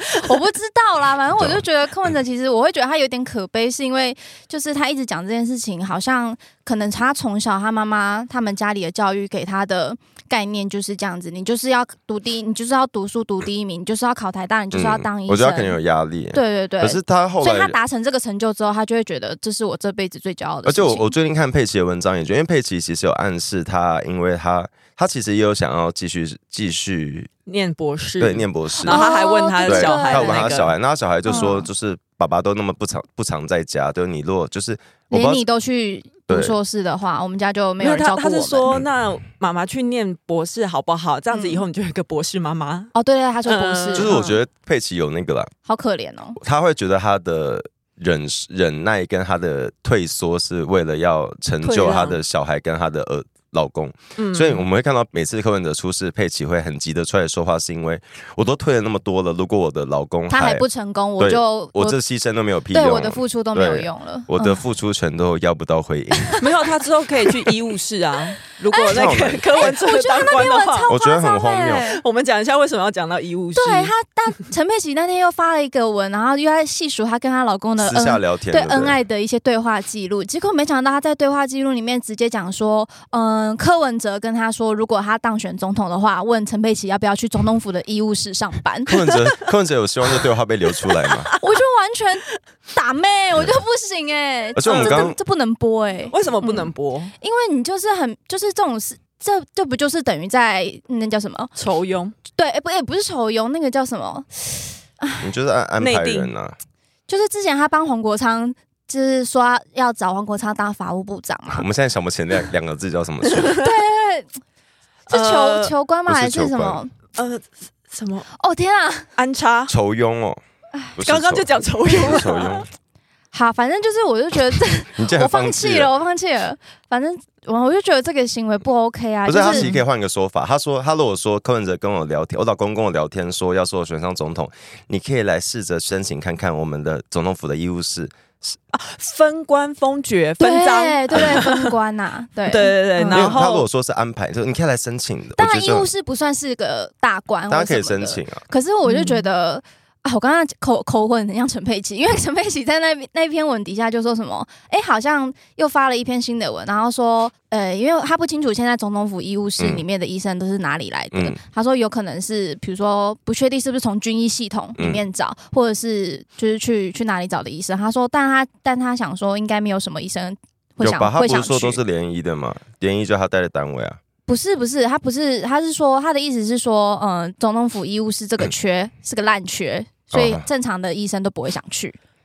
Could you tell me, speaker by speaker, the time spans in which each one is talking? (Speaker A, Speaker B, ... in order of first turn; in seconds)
Speaker A: 0.2-15.8, 16.3-21.1, 28.8-30.6, 31.2-31.7, 35.1-38.7, 41.3-41.6, 42.9-44.2, 45.6-46.4, 60.3-62.0, 62.7-64.6, 68.7-72.0, 73.5-88.9, 91.4-101.5, 102.3-105.2, 107.1-111.7, 113.6-114.3, 115.1-116.9, 118.3-119.1, 123.3-129.7, 140.4-143.4, 145.3-171.8, 174.3-182.0
Speaker B: 1.4-1.6, 14.7-17.8, 20.6-27.3, 28.2-29.0, 29.6-35.4, 36.3-36.5, 43.9-45.5, 46.4-60.6, 61.2-66.4, 68.9-71.8, 77.8-79.0, 88.9-91.3, 94.5-95.2, 105.2-106.5, 111.5-113.6, 116.1-116.8, 119.7-120.4, 120.9-122.7, 124.9-125.9, 129.2-138.6, 143.1-145.9, 147.5-148.4, 161.1-161.4, 170.8-174.0, 180.1-180.4
Speaker C: 27.5-30.7, 37.8-42.9, 43.4-44.4, 51.6-52.2, 54.2-54.6, 66.4-70.9, 71.9-73.9, 90.9-91.4, 94.7-95.1, 96.1-97.1, 101.6-102.1, 105.8-106.3, 113.4-113.6, 115.1-115.7, 117.1-118.3, 119.2-119.7, 121.0-122.6, 129.4-129.8, 138.7-141.7, 142.4-143.6, 148.8-149.2